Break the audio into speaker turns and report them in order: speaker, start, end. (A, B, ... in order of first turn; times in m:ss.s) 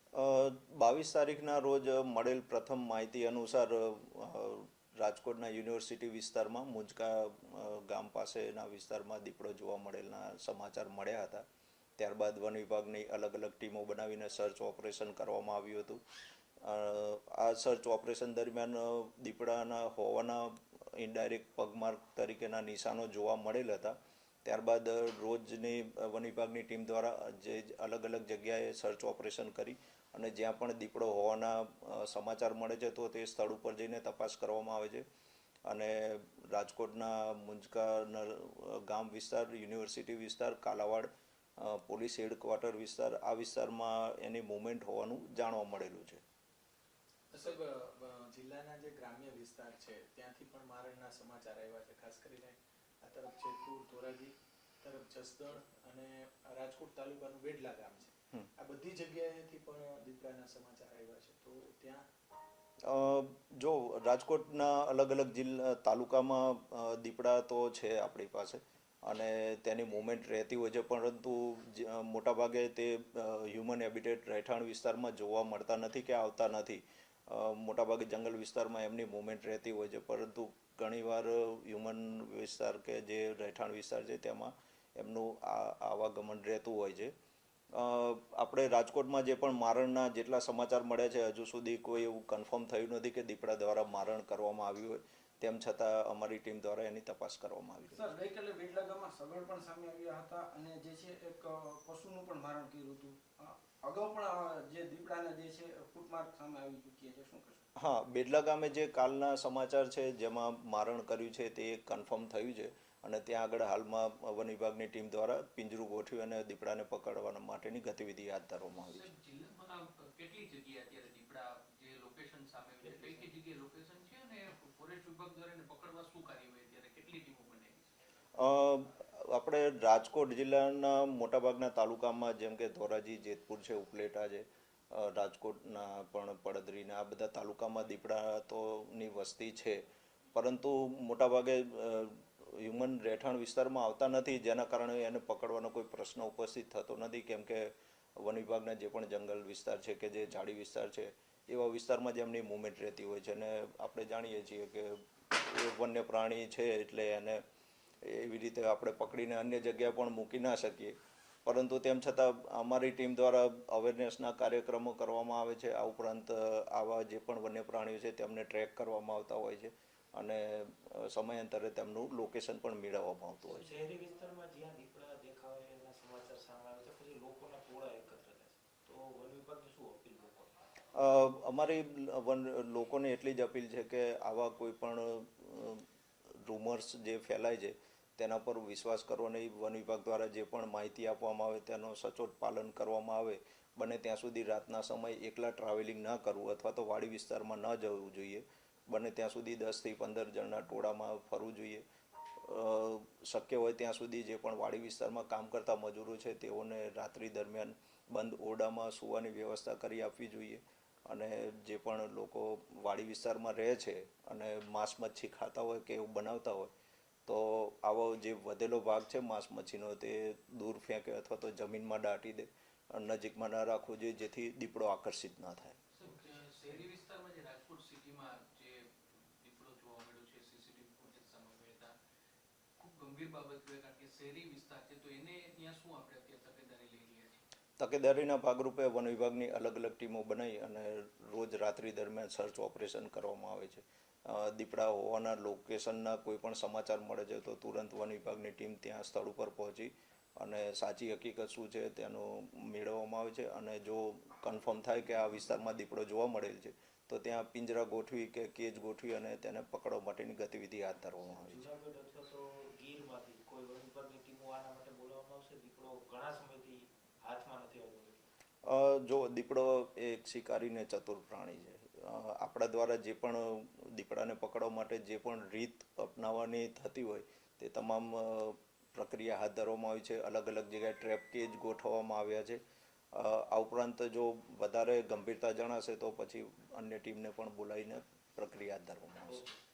0:00.2-0:11.4 A
0:12.0-0:16.0 A
0:16.6-0:35.0 A
0:35.7-0:46.2 A
0:47.3-1:02.0 B
1:02.9-1:27.1 A
1:27.7-1:38.1 A
1:37.9-1:47.7 C
1:47.8-1:59.1 A
1:58.8-2:08.0 D
2:02.8-2:03.3 E
2:08.4-2:37.4 A
2:38.0-2:53.8 A
2:53.5-3:00.5 E
3:00.9-3:05.8 A
3:06.4-3:21.8 A
3:22.4-3:36.7 A
3:37.3-3:45.8 A
3:45.9-3:51.9 D
3:52.8-3:57.4 D
3:57.8-4:21.7 A
4:21.2-4:28.3 E
4:28.6-4:42.6 A
4:43.1-4:49.5 A